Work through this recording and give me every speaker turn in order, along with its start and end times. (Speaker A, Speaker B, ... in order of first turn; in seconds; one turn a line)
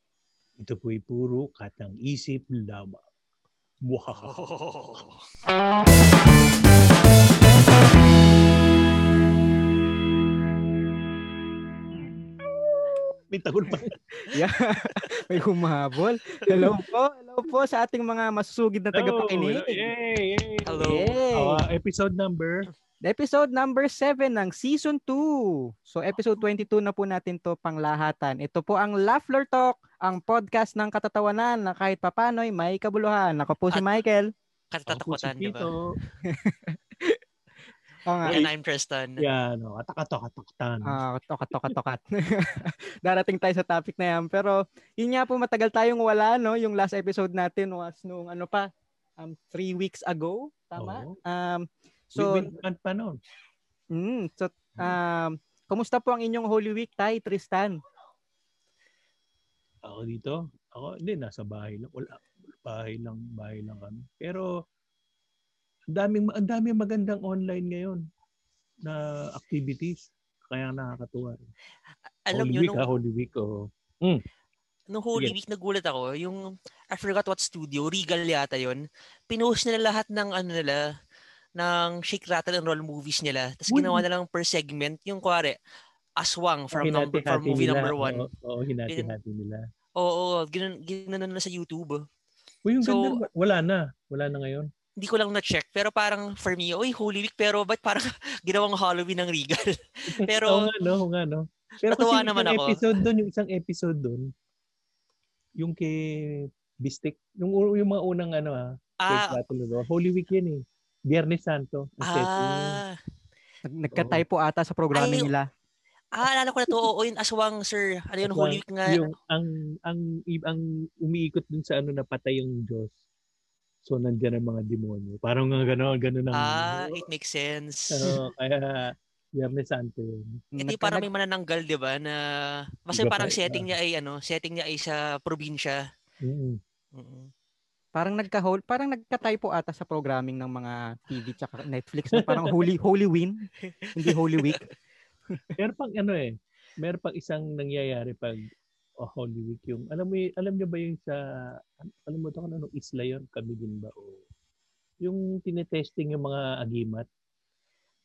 Speaker A: 0.6-3.0
Speaker A: 3.9-4.4
Speaker B: 4.2-5.2
Speaker A: 13.3-13.9
Speaker C: 14.3-19.9
Speaker A: 18.9-22.7
Speaker B: 20.7-21.1
Speaker C: 20.8-21.6
Speaker C: 23.0-34.3
Speaker B: 34.7-35.7
Speaker A: 34.9-35.8
Speaker C: 36.3-37.2
Speaker C: 38.1-38.5
Speaker B: 38.2-39.2
Speaker A: 39.2-41.0
Speaker C: 40.9-52.4
Speaker A: 50.8-51.2
Speaker A: 52.1-53.2
Speaker C: 54.0-57.8
Speaker A: 59.9-64.5
Speaker A: 65.9-68.0
Speaker A: 68.8-71.5
Speaker B: 72.3-72.9
Speaker A: 72.3-74.2
Speaker B: 74.9-80.8
Speaker B: 81.6-85.6
Speaker A: 83.7-84.0
Speaker B: 86.2-88.3
Speaker A: 86.7-89.6
Speaker B: 90.0-92.0
Speaker A: 92.7-94.7
Speaker B: 92.8-93.2
Speaker B: 95.0-100.7
Speaker A: 100.1-104.3
Speaker B: 101.8-103.0
Speaker A: 105.6-112.8
Speaker B: 109.0-109.4
Speaker B: 112.0-113.0
Speaker C: 113.7-115.5
Speaker A: 113.9-114.2
Speaker B: 115.0-115.3
Speaker B: 116.1-119.0
Speaker A: 118.2-123.0
Speaker A: 123.8-127.1
Speaker B: 126.3-128.1
Speaker A: 127.9-130.4
Speaker C: 130.6-131.1
Speaker B: 130.6-132.2
Speaker B: 132.8-135.8
Speaker A: 132.9-133.7
Speaker A: 136.2-136.6
Speaker B: 136.9-137.3
Speaker C: 137.9-143.4
Speaker A: 142.2-142.5
Speaker C: 143.9-144.6
Speaker A: 145.6-146.3
Speaker A: 146.8-148.5
Speaker A: 149.0-151.2
Speaker A: 151.8-154.3
Speaker A: 155.0-157.1